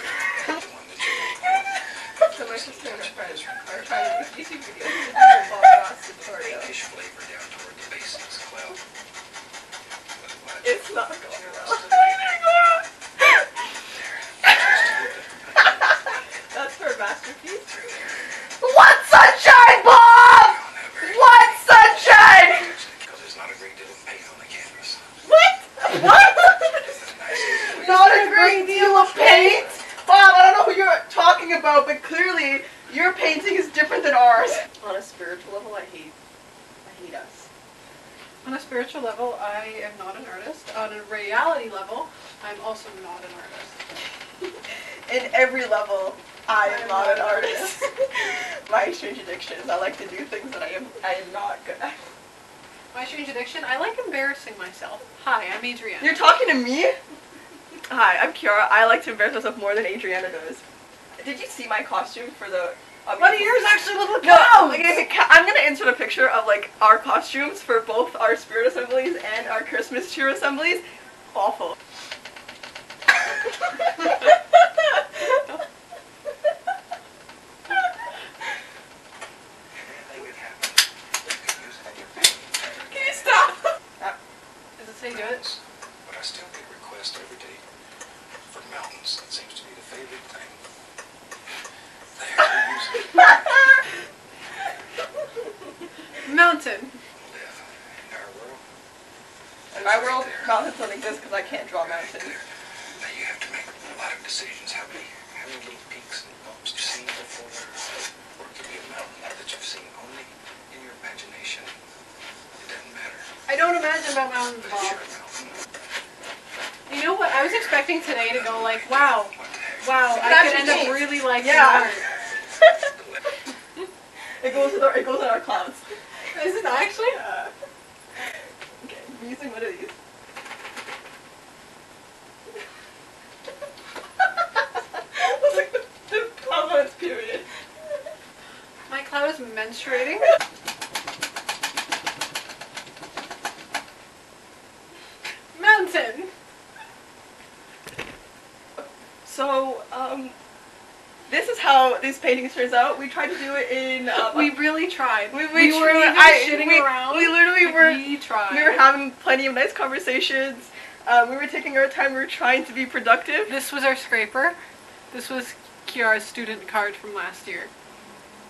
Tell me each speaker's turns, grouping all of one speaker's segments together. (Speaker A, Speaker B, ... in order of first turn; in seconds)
Speaker A: 0.2-4.5, 6.2-8.8, 10.1-12.5, 13.9-16.2, 17.7-18.2, 20.4-25.0, 26.8-28.0, 79.8-83.4, 85.1-87.6, 88.5-90.6, 92.2-93.7, 97.2-98.6, 99.8-100.6, 101.7-102.4, 103.0-111.8, 112.6-113.3, 114.6-115.5, 118.3-121.0, 122.1-123.2
Speaker B: 2.2-6.7, 10.6-12.7, 16.5-17.7, 18.6-22.8, 25.2-26.9, 27.6-36.1, 36.8-37.5, 45.1-52.1, 56.0-57.0, 57.9-60.6, 61.2-71.8, 99.7-102.4, 120.1-122.0, 124.4-125.8, 127.0-127.5, 128.8-129.9, 135.0-137.5, 148.8-150.3, 151.3-154.6, 155.3-163.5
Speaker C: 27.8-29.7, 38.4-43.8, 46.6-47.9, 52.9-56.2, 63.2-65.0, 83.3-83.6, 84.8-85.4, 96.2-96.9, 113.5-115.0, 116.9-122.0, 126.3-127.2, 138.9-140.3, 145.5-146.3, 154.1-158.9, 163.5-164.6, 165.1-167.7